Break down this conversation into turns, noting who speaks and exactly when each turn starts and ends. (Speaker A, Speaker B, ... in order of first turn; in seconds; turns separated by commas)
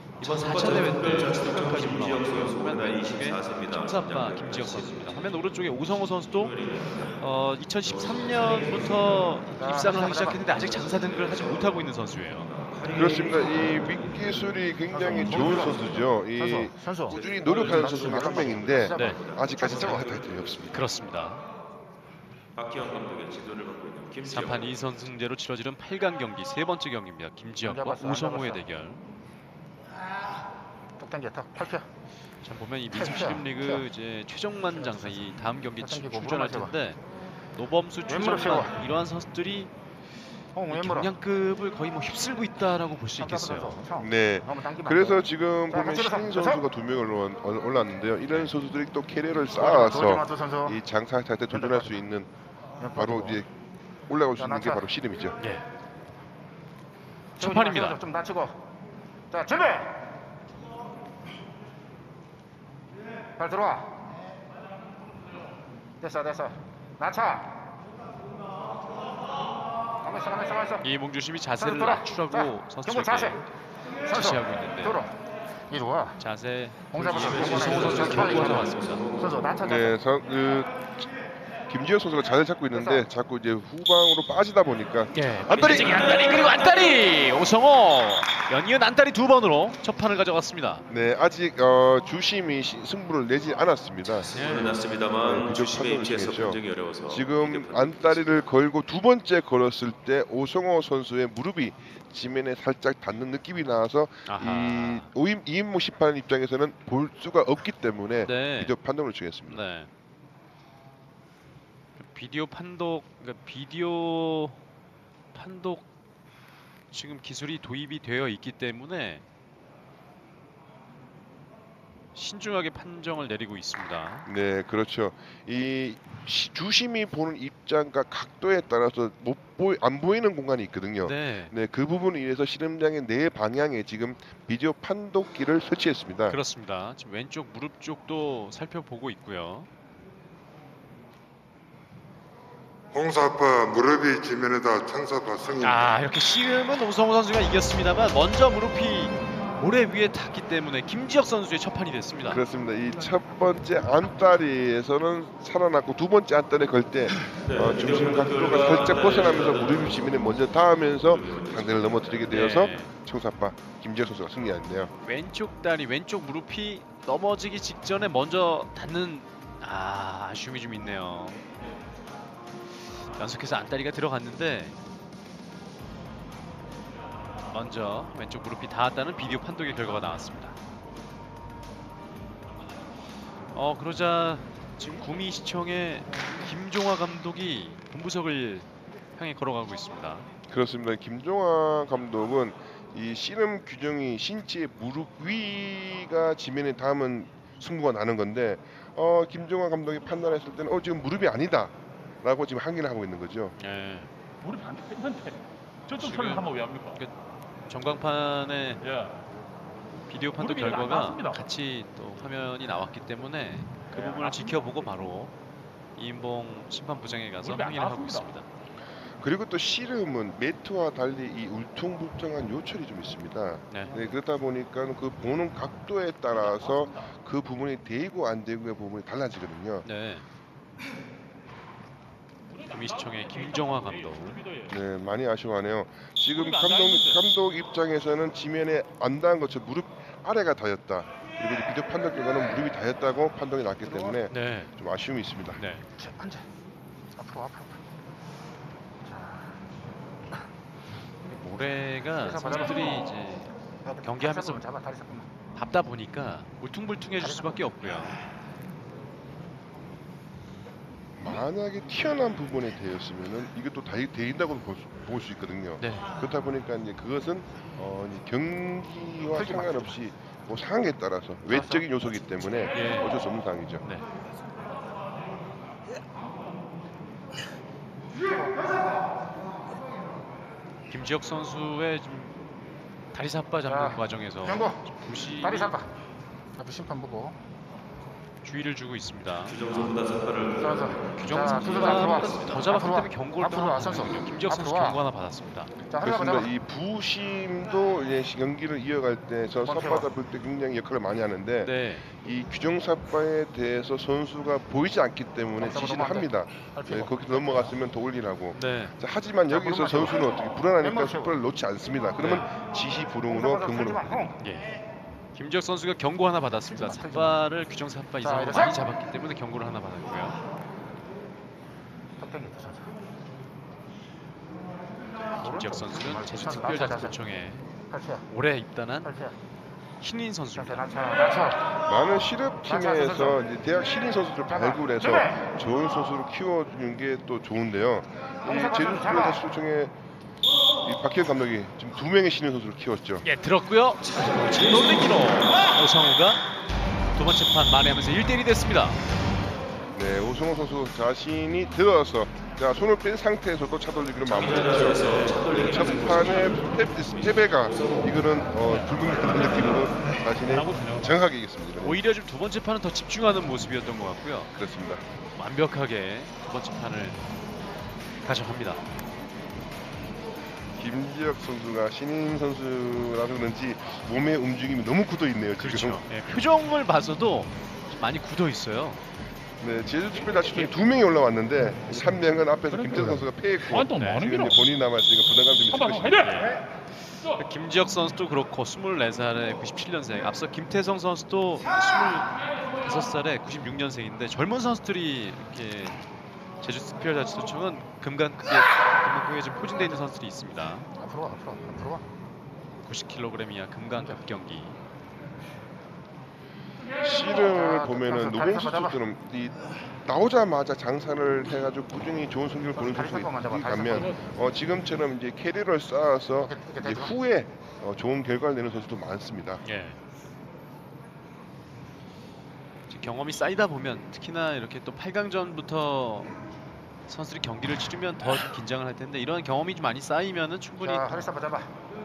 Speaker A: 0.2-6.5, Speaker B: 0.2-5.2, Speaker B: 6.4-7.1, Speaker A: 7.2-12.5, Speaker B: 7.8-9.1, Speaker C: 9.6-10.4, Speaker B: 10.7-11.7, Speaker B: 12.5-14.6, Speaker D: 12.9-20.8, Speaker C: 14.9-20.1, Speaker B: 15.4-16.1, Speaker B: 17.1-20.5, Speaker A: 18.9-19.2, Speaker A: 20.7-21.4, Speaker B: 22.6-24.9, Speaker A: 24.3-29.0, Speaker C: 27.6-28.6, Speaker C: 31.0-31.9, Speaker A: 32.4-37.0, Speaker C: 32.9-33.8, Speaker C: 34.8-36.7, Speaker A: 37.5-39.7, Speaker C: 38.1-38.8, Speaker C: 40.5-41.1, Speaker A: 40.7-43.8, Speaker C: 43.2-46.6, Speaker D: 44.0-52.3, Speaker C: 49.5-50.8, Speaker C: 51.5-52.0, Speaker C: 52.8-53.4, Speaker D: 52.9-53.5, Speaker D: 54.1-55.4, Speaker C: 54.4-54.9, Speaker A: 57.4-58.0, Speaker C: 57.4-58.6, Speaker C: 59.3-60.0, Speaker C: 63.4-63.9, Speaker C: 66.0-67.6, Speaker C: 70.0-70.9, Speaker A: 70.8-73.5, Speaker C: 71.6-73.4, Speaker C: 74.1-75.1, Speaker A: 74.1-75.0, Speaker C: 75.7-76.2, Speaker A: 76.2-79.1, Speaker C: 76.9-80.0, Speaker B: 77.2-79.3, Speaker D: 79.6-81.1, Speaker D: 81.7-85.8, Speaker C: 82.7-83.1, Speaker A: 85.1-90.8, Speaker B: 85.6-86.3, Speaker D: 90.9-94.3, Speaker B: 94.2-98.2, Speaker A: 94.3-94.8, Speaker D: 95.2-109.6, Speaker A: 104.3-105.1, Speaker A: 108.2-108.7, Speaker A: 109.5-109.9, Speaker A: 112.0-114.6, Speaker A: 115.3-115.9, Speaker A: 116.9-119.2, Speaker A: 122.2-124.3, Speaker D: 124.3-136.4, Speaker A: 131.0-131.5, Speaker A: 136.3-139.7, Speaker E: 142.9-145.9, Speaker A: 145.6-152.4, Speaker D: 152.3-164.9, Speaker B: 157.5-162.3, Speaker A: 162.3-162.9, Speaker A: 165.0-171.4, Speaker A: 173.2-174.8, Speaker A: 177.5-180.6, Speaker A: 183.5-190.3, Speaker D: 190.5-203.6, Speaker A: 203.6-204.1, Speaker F: 204.4-205.4, Speaker F: 205.9-207.0, Speaker A: 205.9-207.1, Speaker A: 207.7-208.8, Speaker F: 208.9-209.1, Speaker A: 210.1-215.3, Speaker F: 210.4-211.4, Speaker A: 216.0-218.4, Speaker F: 217.4-218.2, Speaker D: 219.2-229.9, Speaker F: 226.4-227.1, Speaker A: 229.8-230.2, Speaker A: 232.7-234.5, Speaker D: 234.7-245.6, Speaker F: 236.4-237.2, Speaker C: 243.8-244.2, Speaker A: 244.3-244.7, Speaker A: 245.6-245.9, Speaker C: 246.0-246.4, Speaker C: 247.2-247.8, Speaker C: 249.1-249.6, Speaker A: 251.3-254.6, Speaker C: 252.2-253.1, Speaker C: 253.8-255.3, Speaker A: 255.6-258.2, Speaker C: 257.2-257.8, Speaker D: 261.2-273.8, Speaker A: 265.8-266.1, Speaker C: 269.3-270.0, Speaker C: 271.5-271.9, Speaker A: 272.7-273.1, Speaker C: 278.2-278.8, Speaker A: 280.9-282.4, Speaker A: 283.1-285.8, Speaker C: 283.7-284.9, Speaker C: 285.4-285.9, Speaker C: 286.6-287.4, Speaker A: 288.4-289.9, Speaker B: 289.5-292.6, Speaker C: 290.6-295.0, Speaker A: 291.1-295.7, Speaker C: 295.9-296.5, Speaker D: 296.0-314.3, Speaker C: 299.6-300.1, Speaker A: 301.6-302.1, Speaker C: 305.6-307.8, Speaker A: 308.5-308.9, Speaker C: 309.5-310.3, Speaker C: 310.8-311.4, Speaker A: 312.2-312.5, Speaker C: 313.3-314.4, Speaker A: 314.4-314.7, Speaker A: 315.4-320.4, Speaker C: 316.7-317.4, Speaker C: 318.2-318.8, Speaker C: 322.2-322.9, Speaker C: 325.4-327.2, Speaker A: 325.4-327.6, Speaker C: 327.9-328.3, Speaker A: 328.3-329.1, Speaker C: 329.0-329.4, Speaker A: 330.0-330.9, Speaker C: 330.6-331.7, Speaker D: 331.9-339.9, Speaker C: 332.6-333.4, Speaker C: 334.5-335.5, Speaker C: 338.4-339.4, Speaker D: 340.8-343.2, Speaker A: 343.2-346.4, Speaker A: 347.1-349.0, Speaker D: 349.9-362.0, Speaker B: 354.3-358.1, Speaker F: 360.6-361.0, Speaker A: 361.8-364.5, Speaker D: 364.5-365.0, Speaker A: 365.4-367.2, Speaker A: 368.2-368.8, Speaker D: 370.8-376.1, Speaker A: 375.6-379.0, Speaker D: 379.6-386.2, Speaker F: 382.7-384.6, Speaker A: 384.0-384.3, Speaker F: 385.8-386.2, Speaker A: 386.2-396.0, Speaker A: 396.6-400.9, Speaker C: 401.0-402.0, Speaker A: 402.9-404.8, Speaker D: 407.0-419.6, Speaker C: 407.4-409.0, Speaker C: 412.8-414.2, Speaker C: 416.4-417.1, Speaker A: 419.6-420.0, Speaker A: 422.9-426.3, Speaker A: 427.1-431.3, Speaker C: 430.8-431.7